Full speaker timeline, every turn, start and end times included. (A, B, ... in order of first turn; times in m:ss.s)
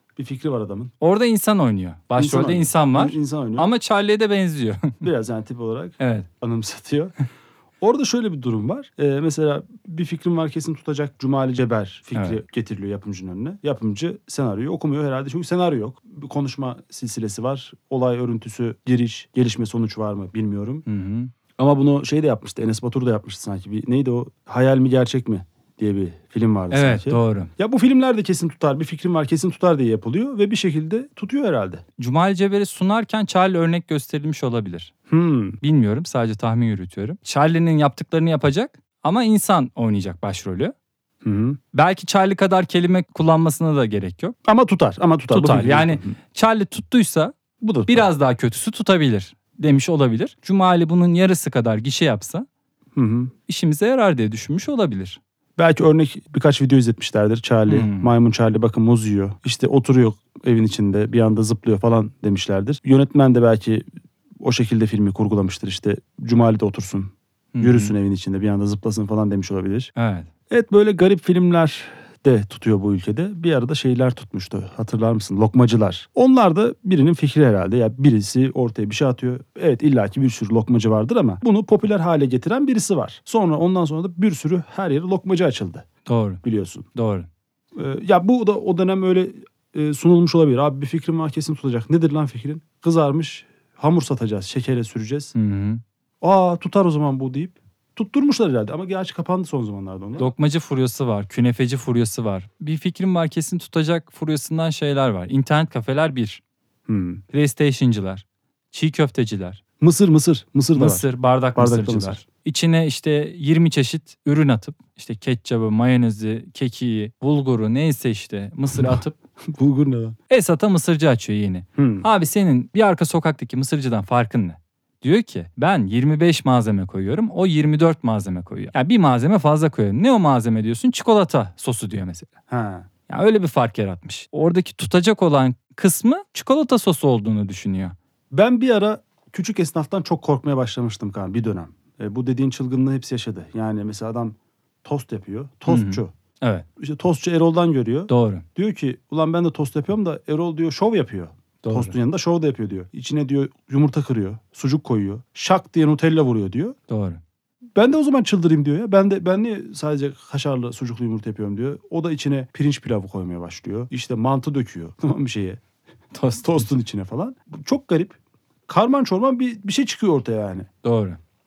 0:00.2-0:00.9 A
0:01.0-0:05.0 B
0:02.2-0:03.7 A
0:05.0-0:07.1 A
0:06.0-0:06.3 B
0:07.8-0:20.8 A
0:20.9-0:21.3 B
0:21.6-0:31.8 A
0:26.7-0:27.5 B
0:32.0-0:34.9 B
0:35.1-0:35.6 A
0:35.6-0:40.8 B
0:41.2-0:41.6 A
0:41.7-0:44.4 B
0:44.5-0:46.2 A
0:45.3-0:47.4 B
0:47.6-0:48.1 A
0:47.9-0:52.5 B
0:53.0-0:53.3 A
0:53.5-0:55.2 B
0:55.6-1:03.9 A
0:57.7-0:58.1 B
1:04.4-1:09.9 A
1:07.5-1:08.0 B
1:10.0-1:10.3 B
1:10.5-1:25.9 A
1:26.0-1:26.4 B
1:26.4-1:26.9 A
1:26.9-1:27.3 B
1:27.8-1:35.3 A
1:35.3-1:35.8 B
1:36.2-1:40.3 A
1:40.2-1:46.4 B
1:46.9-1:47.2 A
1:47.3-1:49.6 B
1:49.8-1:52.2 A
1:50.7-1:59.2 B
1:58.8-1:59.0 A
1:59.5-2:00.2 A
2:00.3-2:12.3 B
2:01.8-2:02.1 A
2:12.5-2:12.9 A
2:13.1-2:18.0 B
2:18.3-2:26.1 A
2:25.7-2:26.7 B
2:26.8-2:36.8 A
2:28.1-2:28.5 B
2:31.6-2:32.0 B
2:36.9-2:37.2 B
2:37.8-2:45.6 A
2:46.1-2:46.7 B
2:46.4-2:48.2 A
2:48.7-2:50.7 A
2:50.8-2:51.2 B